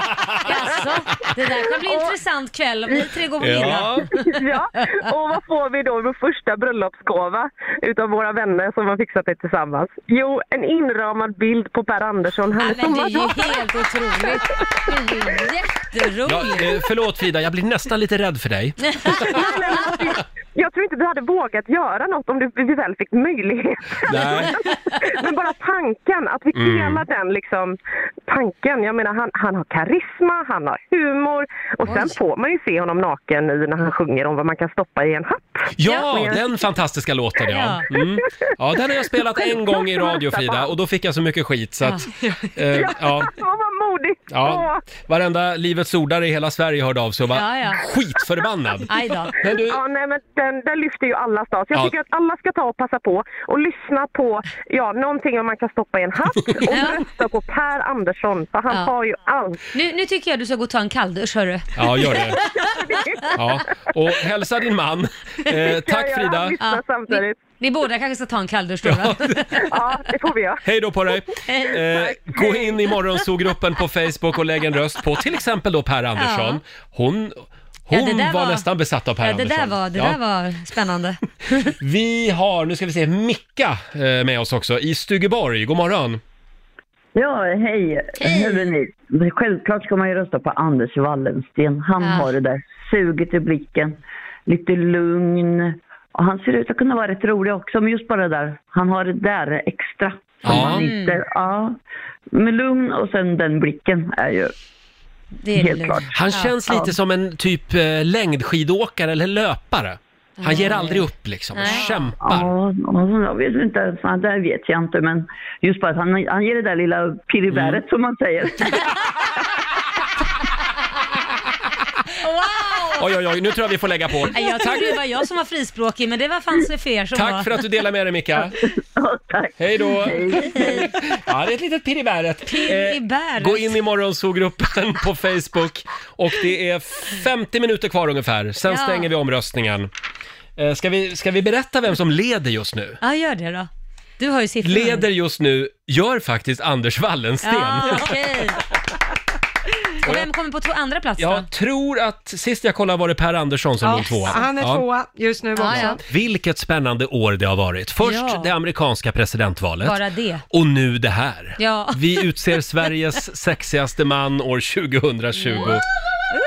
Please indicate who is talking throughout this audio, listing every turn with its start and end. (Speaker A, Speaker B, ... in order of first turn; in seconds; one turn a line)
Speaker A: 0.2-0.5
Speaker B: 0.4-4.3
Speaker C: 1.9-2.1
Speaker A: 3.4-4.1
Speaker C: 4.1-15.4
Speaker B: 12.6-16.8
Speaker A: 16.2-19.4
Speaker B: 18.9-19.4
Speaker C: 19.2-27.8
Speaker A: 24.1-24.5
Speaker A: 26.5-27.1
Speaker C: 28.3-36.5
Speaker A: 35.8-43.3
Speaker B: 37.5-37.9
Speaker C: 38.0-38.2
Speaker C: 39.1-40.7
Speaker D: 42.2-42.5
Speaker C: 42.7-44.9
Speaker A: 44.3-49.8
Speaker B: 47.3-47.8
Speaker B: 48.9-49.4
Speaker C: 49.6-59.6
Speaker B: 56.7-57.0
Speaker B: 59.7-62.6
Speaker A: 61.8-62.5
Speaker C: 62.2-63.5
Speaker A: 63.3-66.6
Speaker C: 65.5-67.4
Speaker B: 66.6-69.7
Speaker A: 68.8-69.7
Speaker C: 69.7-70.7
Speaker A: 70.6-80.2
Speaker B: 71.5-73.0
Speaker B: 76.2-76.6
Speaker B: 77.9-78.7
Speaker B: 79.2-81.7
Speaker A: 81.8-86.2
Speaker E: 87.2-101.8
Speaker B: 88.2-88.7
Speaker B: 92.0-92.3
Speaker A: 100.4-100.8
Speaker B: 100.5-101.2
Speaker E: 102.3-104.5
Speaker B: 105.4-106.5
Speaker E: 105.5-107.0
Speaker A: 106.1-112.5
Speaker B: 110.4-111.9
Speaker E: 111.7-119.0
Speaker A: 117.5-117.8
Speaker B: 122.2-123.0
Speaker A: 123.0-124.9
Speaker B: 124.3-127.5
Speaker A: 127.2-128.6
Speaker E: 128.5-130.9
Speaker A: 129.6-139.9
Speaker B: 130.3-130.9
Speaker B: 132.5-133.8
Speaker B: 138.7-139.1
Speaker A: 140.6-143.0
Speaker B: 143.0-145.1
Speaker A: 144.6-148.6
Speaker B: 147.4-148.7
Speaker B: 149.9-151.5
Speaker A: 151.2-154.8
Speaker B: 153.9-154.4
Speaker D: 154.2-156.0
Speaker B: 155.6-156.0
Speaker A: 155.7-160.0
Speaker B: 158.0-158.5
Speaker B: 159.8-160.4
Speaker A: 160.5-165.8
Speaker B: 161.6-162.6
Speaker B: 165.4-165.8